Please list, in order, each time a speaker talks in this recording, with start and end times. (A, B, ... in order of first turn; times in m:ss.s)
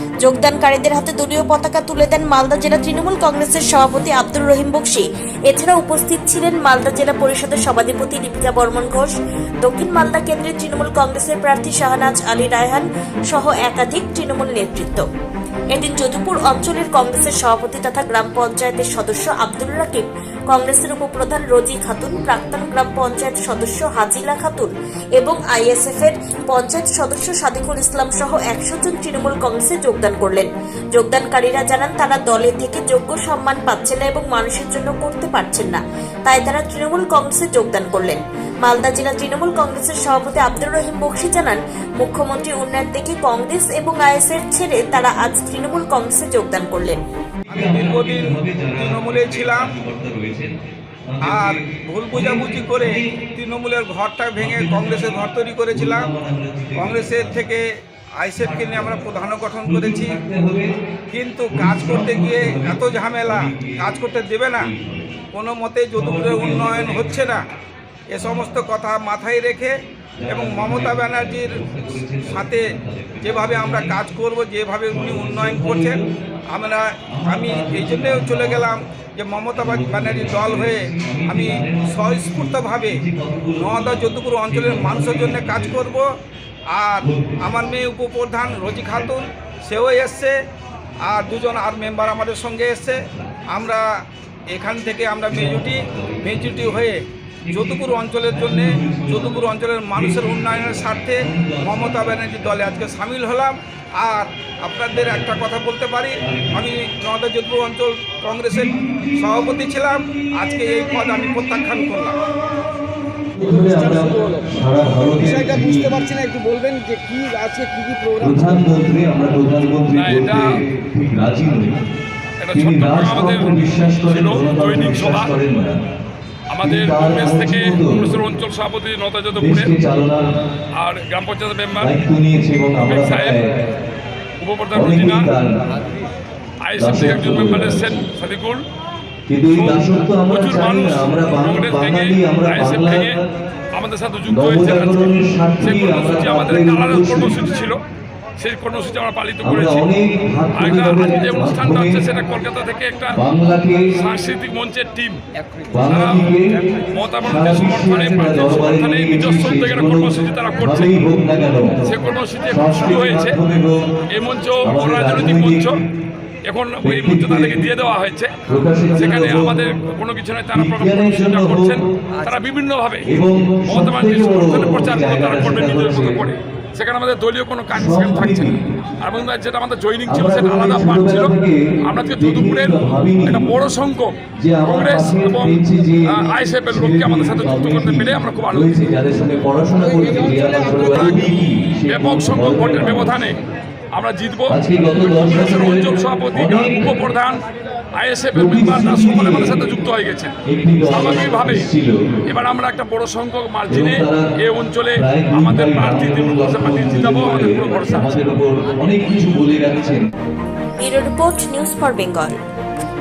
0:00.2-0:15.0 A
0:15.7-0:47.0 A
0:47.5-0:49.7 B
0:47.5-0:50.5 C
0:51.1-0:53.2 C
0:51.2-0:56.1 B
0:54.4-0:57.5 C
0:56.8-0:57.6 B
0:58.2-1:00.2 B
0:58.4-0:59.0 C
0:59.6-1:00.7 C
1:01.1-1:04.7 B
1:01.5-1:03.9 C
1:04.6-1:05.2 C
1:05.3-1:07.4 B
1:06.0-1:07.1 C
1:08.1-1:11.6 B
1:10.2-1:14.0 C
1:12.1-1:12.6 B
1:13.2-1:16.0 B
1:14.9-1:16.1 C
1:16.5-1:23.0 B
1:17.1-1:18.7 C
1:19.6-1:25.8 C
1:23.6-1:26.1 B
1:26.7-1:30.4 B
1:27.0-1:27.5 C
1:31.0-1:33.0 B
1:33.0-1:33.4 C
1:33.5-1:33.8 B
1:34.5-1:37.0 B
1:35.3-1:36.8 C
1:37.4-1:39.4 C
1:37.5-1:52.2 B
1:39.9-1:42.8 C
1:44.9-1:45.4 C
1:46.2-1:46.6 C
1:48.5-1:49.5 C
1:53.4-1:56.0 C
1:56.4-1:58.3 D
1:58.2-2:01.8 C
1:59.9-2:00.6 E
2:02.4-2:05.4 E
2:02.5-2:05.9 C
2:06.5-2:09.7 E
2:06.6-2:08.1 C
2:09.4-2:10.4 C
2:10.8-2:12.0 E
2:11.8-2:13.5 C
2:12.8-2:13.4 E
2:14.4-2:15.3 E
2:14.7-2:15.5 C
2:16.6-2:18.6 E
2:16.8-2:18.0 C
2:19.3-2:23.3 C
2:19.5-2:23.2 E
2:23.7-2:27.8 E
2:24.3-2:27.5 C
2:28.4-2:29.9 E
2:29.4-2:32.0 C
2:30.6-2:33.2 E
2:33.1-2:33.9 C
2:33.9-2:35.2 E
2:35.7-2:36.6 C
2:35.9-2:36.3 E
2:36.9-2:41.0 E
2:37.2-2:42.0 C
2:41.8-2:43.4 E
2:42.5-2:43.8 C
2:44.1-2:45.7 E
2:44.6-2:45.7 C
2:46.5-2:48.4 E
2:46.8-2:47.6 C
2:48.5-2:49.7 C
2:49.0-2:53.1 E
2:50.5-2:51.8 C
2:53.0-2:56.2 C
2:53.7-3:01.3 E
2:57.7-2:58.6 C
3:00.1-3:03.5 C
3:01.8-3:04.1 E
3:04.4-3:13.3 C
3:04.6-3:08.7 E
3:10.9-3:11.2 B
3:11.9-3:13.4 E
3:13.9-3:17.4 E
3:14.5-3:16.9 C
3:17.9-3:21.7 E
3:18.3-3:19.6 C
3:20.4-3:22.1 C
3:22.2-3:28.3 E
3:23.7-3:24.3 C
3:24.9-3:30.0 C
3:30.8-3:32.4 A